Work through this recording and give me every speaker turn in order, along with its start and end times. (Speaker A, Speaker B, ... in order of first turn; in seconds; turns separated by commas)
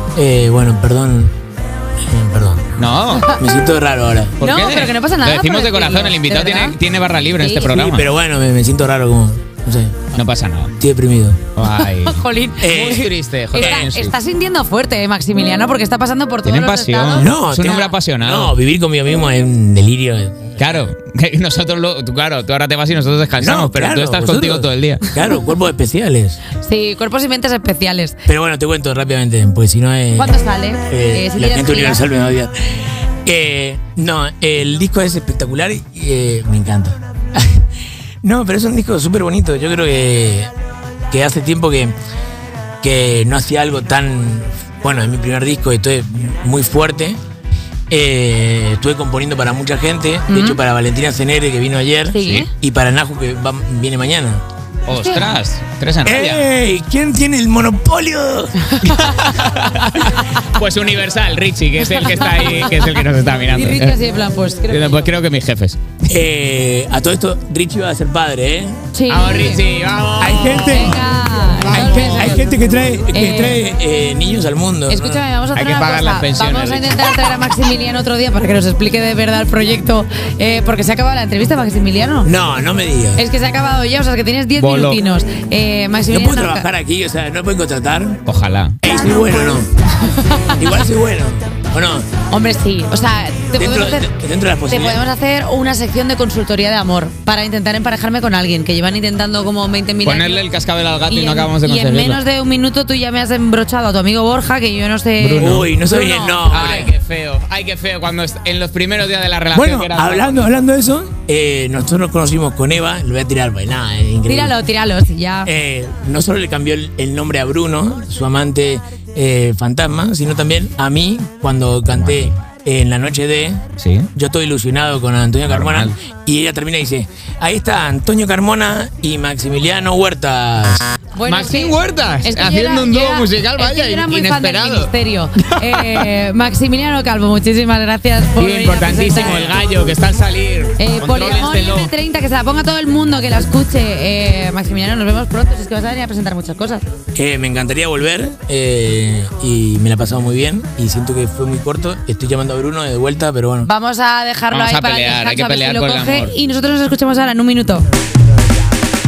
Speaker A: 0.1-1.3, Speaker A: 2.1-2.7, Speaker B: 2.8-3.4, Speaker A: 3.3-4.4, Speaker C: 4.4-6.8, Speaker B: 4.4-8.1, Speaker C: 7.3-7.8, Speaker A: 7.7-10.2, Speaker B: 10.1-10.8, Speaker A: 10.8-11.5, Speaker B: 11.5-14.1, Speaker C: 11.6-17.9, Speaker A: 12.6-13.9, Speaker B: 16.4-18.5, Speaker A: 17.1-20.9, Speaker B: 20.6-25.1, Speaker A: 23.4-26.4, Speaker C: 26.6-28.2, Speaker A: 28.2-37.7, Speaker C: 30.1-32.0, Speaker A: 38.2-40.5, Speaker A: 41.1-41.9, Speaker A: 42.8-47.2, Speaker A: 47.9-54.4, Speaker C: 50.3-50.6, Speaker C: 52.1-52.5, Speaker B: 52.2-52.5, Speaker B: 54.9-56.4, Speaker C: 54.9-55.3, Speaker A: 56.0-59.1, Speaker C: 58.7-59.3, Speaker B: 58.9-64.0, Speaker C: 61.9-62.9, Speaker C: 63.5-65.1, Speaker B: 64.7-66.0, Speaker A: 66.1-68.8, Speaker C: 68.9-69.6, Speaker B: 69.1-72.5, Speaker A: 70.2-71.2, Speaker C: 70.2-72.5, Speaker A: 71.7-75.1, Speaker C: 73.1-73.6, Speaker C: 74.9-82.3, Speaker B: 75.5-77.4, Speaker A: 82.2-83.2, Speaker C: 83.2-86.7, Speaker B: 84.6-85.0, Speaker A: 86.1-88.2, Speaker B: 88.2-88.8, Speaker A: 88.8-92.1, Speaker C: 88.8-90.7, Speaker C: 92.3-94.1, Speaker A: 93.5-95.0, Speaker C: 94.7-100.4, Speaker B: 100.0-102.2, Speaker C: 101.1-106.9, Speaker B: 105.2-105.7, Speaker A: 105.4-106.9, Speaker B: 106.5-110.5, Speaker A: 109.5-114.5, Speaker C: 114.2-115.5, Speaker A: 115.5-123.6, Speaker B: 121.9-122.3, Speaker B: 123.8-124.1, Speaker A: 124.2-130.9, Speaker B: 125.5-126.0, Speaker C: 131.1-139.6, Speaker B: 131.2-136.1, Speaker B: 138.4-141.9, Speaker C: 140.8-146.8, Speaker A: 147.1-153.7, Speaker C: 153.6-157.9, Speaker B: 154.5-156.4